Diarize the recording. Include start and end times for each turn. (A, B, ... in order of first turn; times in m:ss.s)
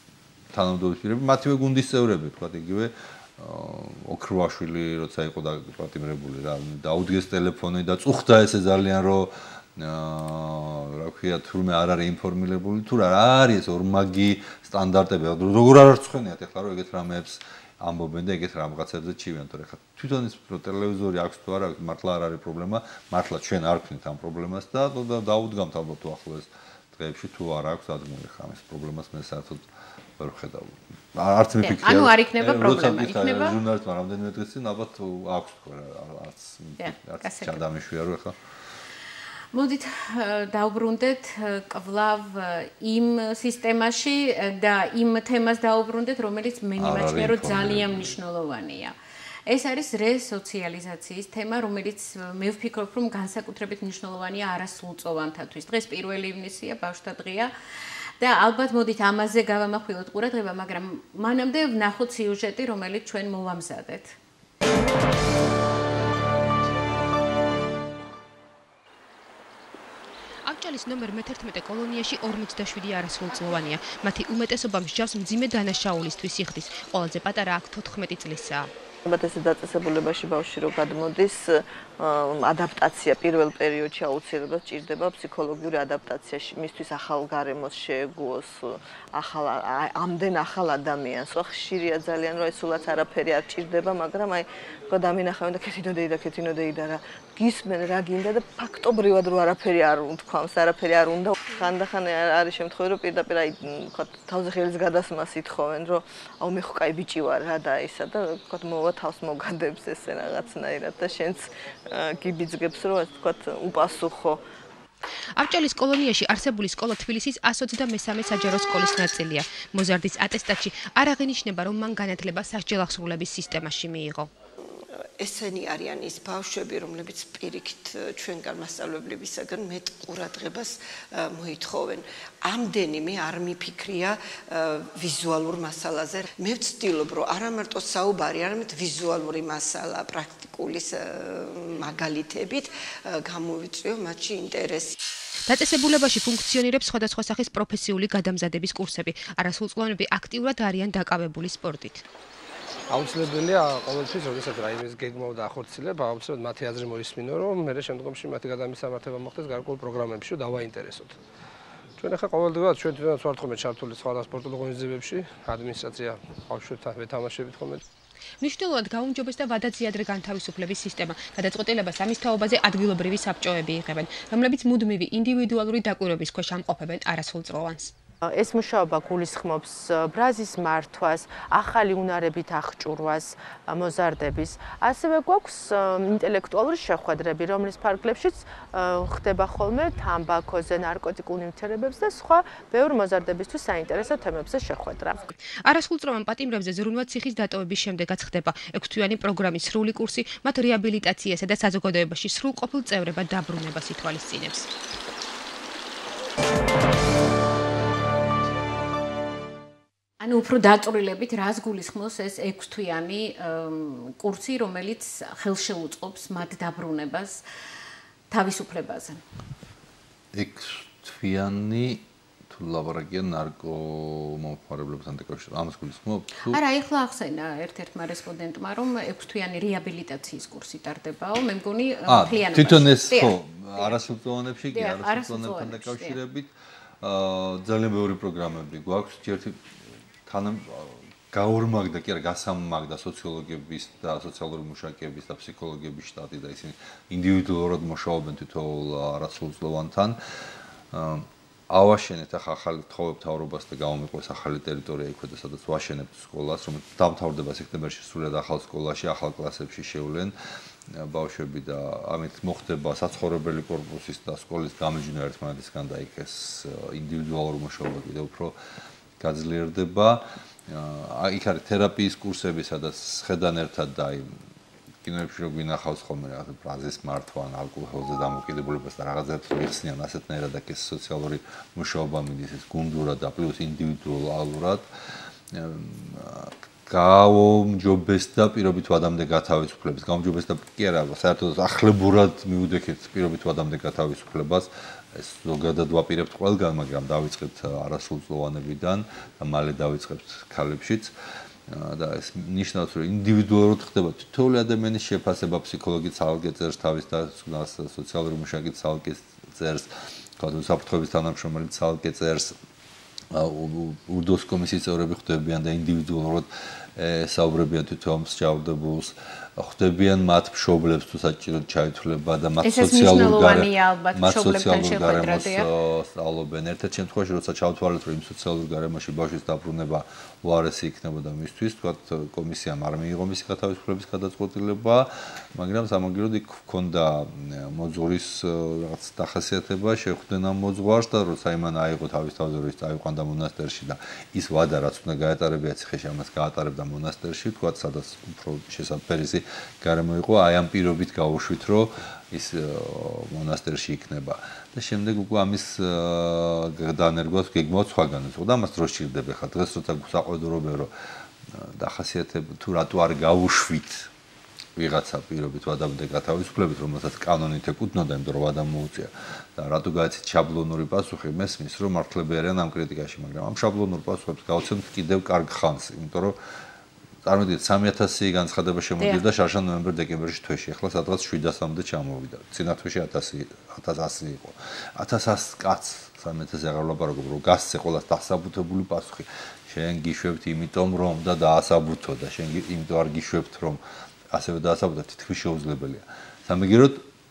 0:00.5-0:38.4 A
0:31.6-0:33.6 B
0:36.8-0:37.6 B
0:39.5-0:49.0 B
0:46.8-0:48.2 A
0:49.5-0:57.5 B
0:58.2-1:04.2 B
1:10.4-1:18.7 C
1:19.1-1:54.4 D
1:55.4-2:04.3 C
2:05.2-2:25.0 E
2:25.5-2:32.0 C
2:32.9-2:41.2 F
2:42.0-2:47.8 F
2:48.4-2:57.9 C
2:58.3-3:15.4 G
3:15.6-3:24.7 C
3:30.2-3:37.4 B
3:38.3-3:39.2 B
3:40.3-3:46.6 A
3:46.5-3:54.0 B
3:52.1-4:20.4 A
3:54.7-3:56.2 B
4:20.9-4:28.6 A
4:29.2-4:34.4 A
4:35.0-4:44.9 A
4:45.5-5:01.1 A
5:01.7-5:12.6 A
5:13.3-6:00.9 A
5:22.6-5:25.7 B
6:01.5-6:04.1 A
6:04.8-6:16.4 A
6:17.2-6:37.0 A